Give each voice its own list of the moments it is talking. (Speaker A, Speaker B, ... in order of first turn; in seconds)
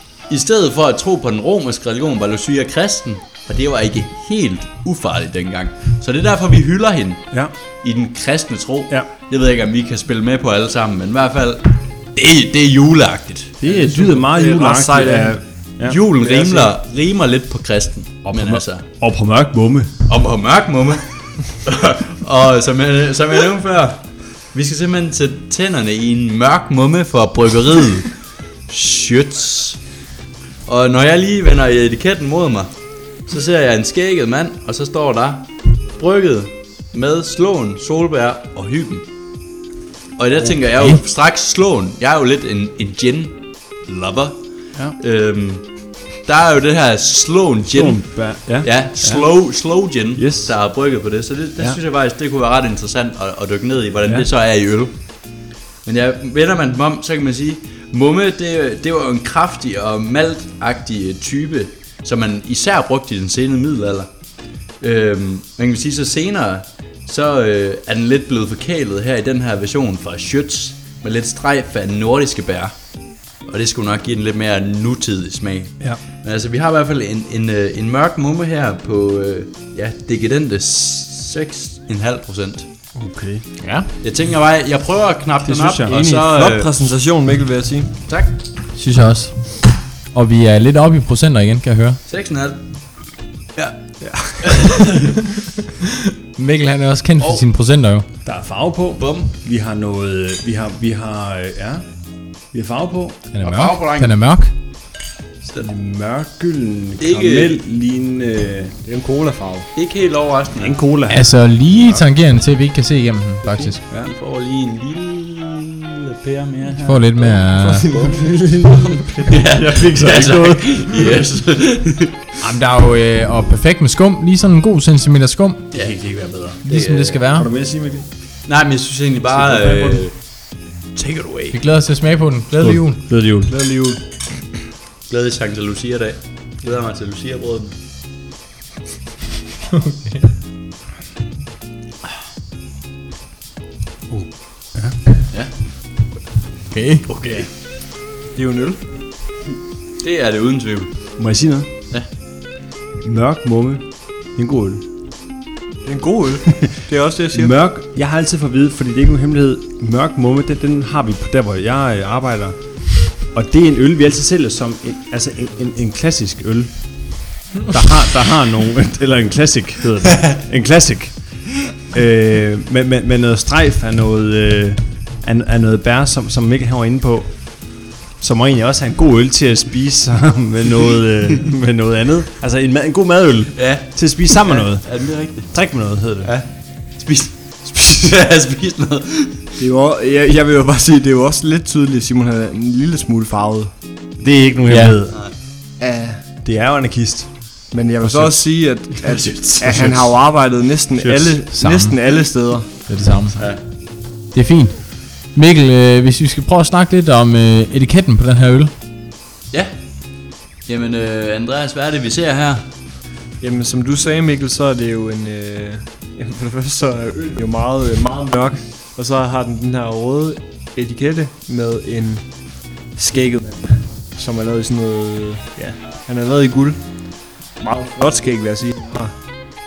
Speaker A: 0.3-7.2, 7.8-13.5, 15.8-18.8, 20.1-28.2, 28.7-29.8, 30.6-32.7, 33.3-39.0, 40.2-44.4, 45.0-45.7, 46.2-54.9, 55.8-64.1, 64.8-72.7, 73.5-82.7, 84.0-86.7, 88.0-88.4, 92.0-92.6, 94.4-95.1, 97.2-97.5, 99.0-99.3, 103.4-104.2, 107.0-107.6, 109.7-110.8, 113.9-118.2, 118.7-122.3, 125.7-127.2, 128.5-130.1, 130.9-131.6, 132.5-132.8, 135.1-137.7, 147.1-147.5, 150.0-151.1, 183.5-185.6, 186.2-189.5, 203.3-203.6, 210.7-212.7
Speaker B: 13.6-15.9, 18.2-19.9, 47.6-49.2, 50.1-50.5, 82.9-83.4, 85.4-86.0, 98.2-101.8, 102.5-103.2, 105.6-108.8, 110.6-112.0, 117.8-121.2, 125.7-126.5, 127.3-128.1, 129.3-129.9, 132.6-133.5, 144.1-144.9, 151.2-151.7, 153.0-154.8, 157.3-166.7, 167.6-171.1, 171.8-186.3, 194.2-195.2, 196.4-197.3, 199.6-200.1
Speaker C: 13.6-15.4, 16.2-16.7, 85.9-87.9, 94.0-94.9, 108.8-109.7, 117.8-118.4, 133.5-134.0, 148.3-148.8, 155.8-157.5, 189.6-193.7, 195.8-196.2, 197.7-202.7, 213.4-222.2, 222.9-226.8, 227.6-229.1
Speaker D: 83.6-83.9, 88.8-89.3, 90.1-92.0, 96.4-98.0, 103.3-104.5, 111.1-113.8, 116.8-117.9, 122.4-125.7, 126.7-127.5, 131.5-133.0, 139.7-140.2, 146.7-147.1, 194.7-195.0, 201.1-202.0, 202.9-203.4, 204.3-204.8, 205.3-208.7